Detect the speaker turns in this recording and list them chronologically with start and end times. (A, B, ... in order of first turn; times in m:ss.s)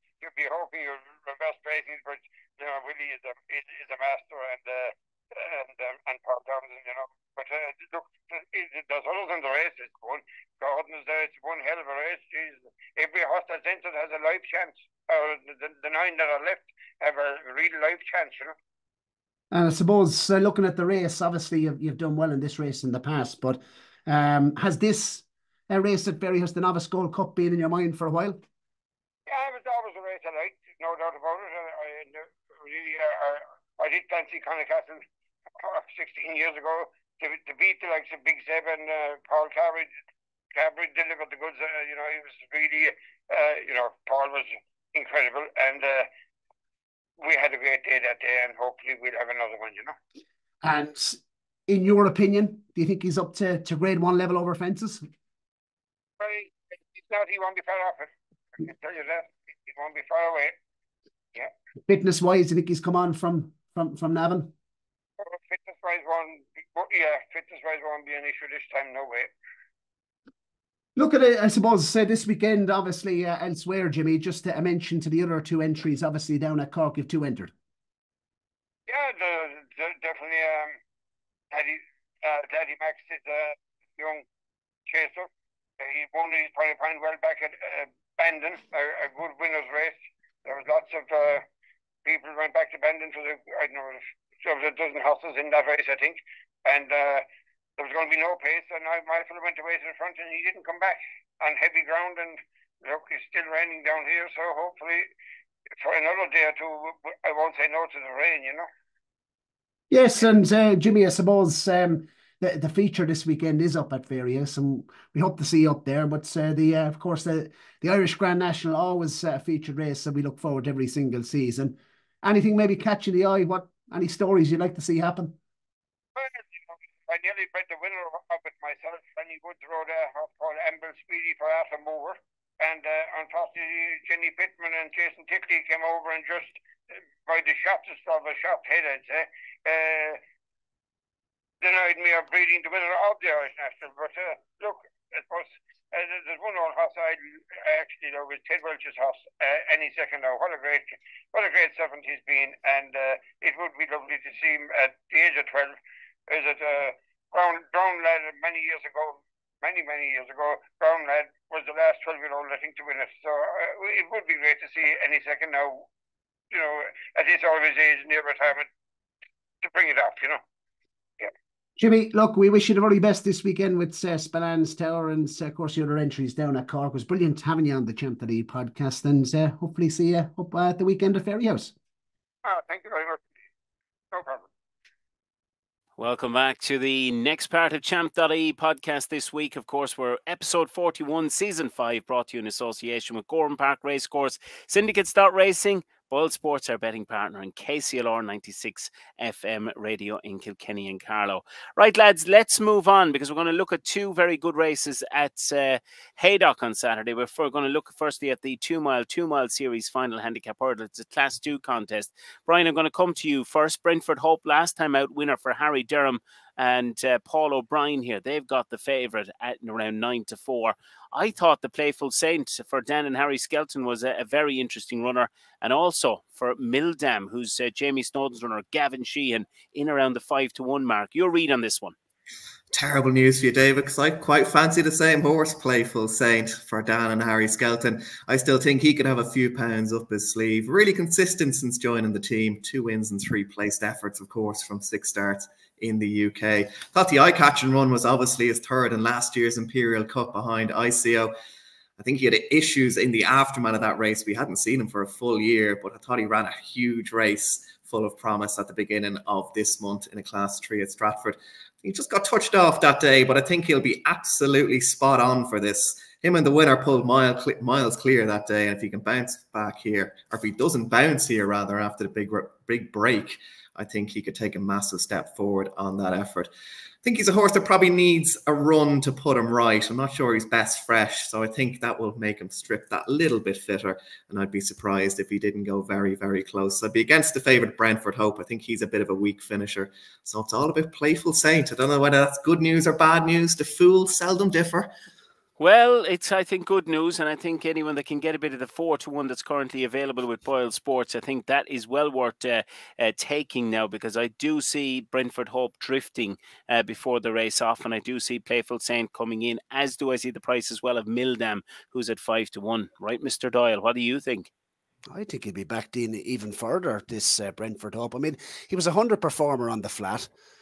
0:00.2-0:18.6 A
0:19.5-0:28.4 B
0:29.3-0:35.0 A
0:35.6-0:39.9 A
0:40.5-0:46.1 A
0:47.2-0:50.0 A
0:50.6-0:55.0 B
0:56.2-1:00.6 A
1:01.9-1:04.5 B
1:05.2-1:09.3 A
1:11.0-1:17.5 B
1:18.9-1:20.8 A
1:21.5-1:24.3 A
1:24.9-1:31.4 A
1:32.0-1:37.3 A
1:37.8-1:45.1 A
1:45.8-1:48.7 A
1:49.9-2:05.4 B
2:06.2-2:16.6 A
2:17.2-2:20.2 A
2:21.6-2:45.9 A
2:46.5-2:48.7 A
2:49.6-2:50.4 A
2:51.8-3:01.7 B
3:02.4-3:03.2 A
3:04.1-3:04.5 A
3:06.0-3:52.0 C
3:52.7-4:11.3 D
4:12.0-4:36.5 D
4:37.0-4:54.9 D
4:55.6-5:14.5 C
5:15.1-5:20.3 B